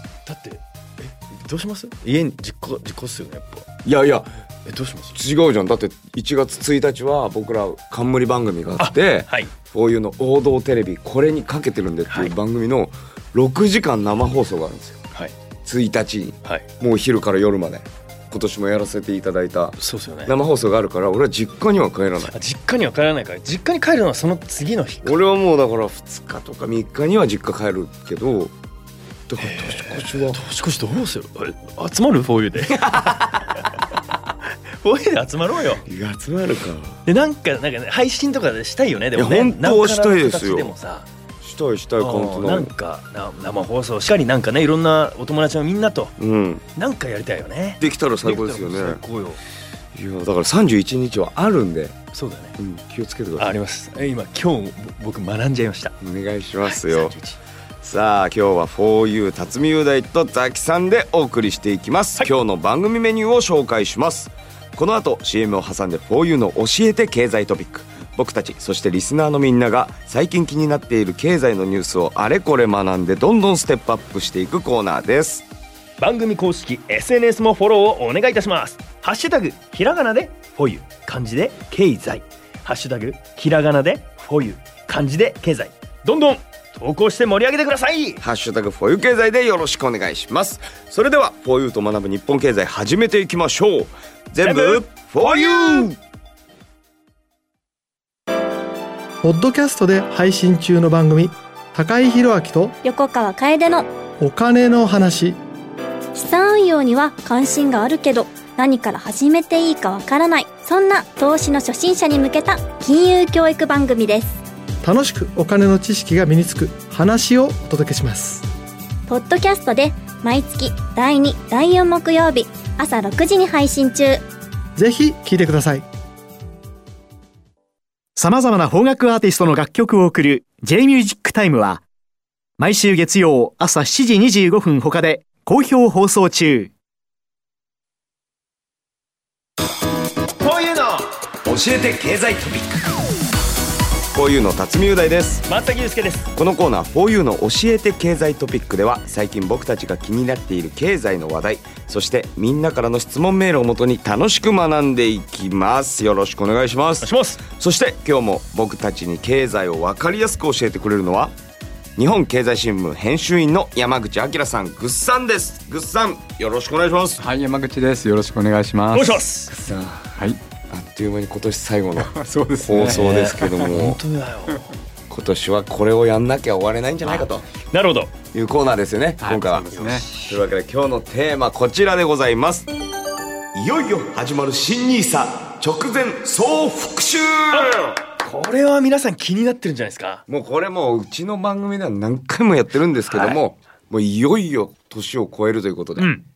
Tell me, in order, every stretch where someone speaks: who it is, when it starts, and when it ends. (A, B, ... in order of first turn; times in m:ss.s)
0:00.3-0:03.7 A
0:03.8-0:04.4 B
0:04.7-0:05.2 A
0:05.1-0:15.0 B
0:08.8-0:09.5 A
0:12.1-0:12.3 A
0:15.6-0:22.3 B
0:19.8-0:20.3 A
0:22.3-0:25.2 A
0:25.0-0:28.5 B
0:29.3-0:30.4 B
0:29.4-0:33.4 A
0:32.7-0:33.5 B
0:34.8-0:35.8 A
0:35.8-0:37.0 B
0:37.1-0:41.1 A
0:39.2-0:40.7 B
0:41.4-0:42.7 B
0:42.0-0:46.2 A
0:46.2-0:46.6 B
0:46.8-0:49.4 A
0:47.8-0:49.0 B
0:49.9-0:52.0 B
0:52.1-0:52.6 A
0:52.6-0:53.5 B
0:53.4-0:56.0 A
0:56.0-0:57.1 B
0:56.6-0:57.4 A
0:57.8-1:15.4 B
1:16.0-1:28.2 A
1:28.2-1:36.0 B
1:34.4-1:35.9 A
1:39.2-1:42.8 C
1:42.8-1:43.9 D
1:44.2-1:45.4 C
1:46.1-1:54.4 D
1:54.8-1:58.4 C
1:59.1-2:04.2 D
2:04.8-2:05.9 C
2:08.2-2:11.8 E
2:12.6-2:16.7 E
2:20.4-2:21.1 A
2:21.4-2:22.9 B
2:24.1-2:25.5 B
2:25.5-2:26.3 A
2:26.3-2:41.3 B
2:37.0-2:37.4 A
2:42.0-2:47.2 B
2:47.2-2:49.2 F
2:48.9-2:49.5 A
2:49.5-2:50.2 B
2:50.7-2:54.0 B
2:52.0-2:53.0 F
2:52.8-2:54.7 A
2:55.1-2:57.5 B
2:57.7-2:58.1 A
2:58.3-3:02.7 B
2:59.2-3:00.1 F
2:59.8-3:00.4 A
3:03.5-3:08.0 B
3:07.5-3:10.2 A
3:10.3-3:16.1 B
3:13.1-3:13.4 A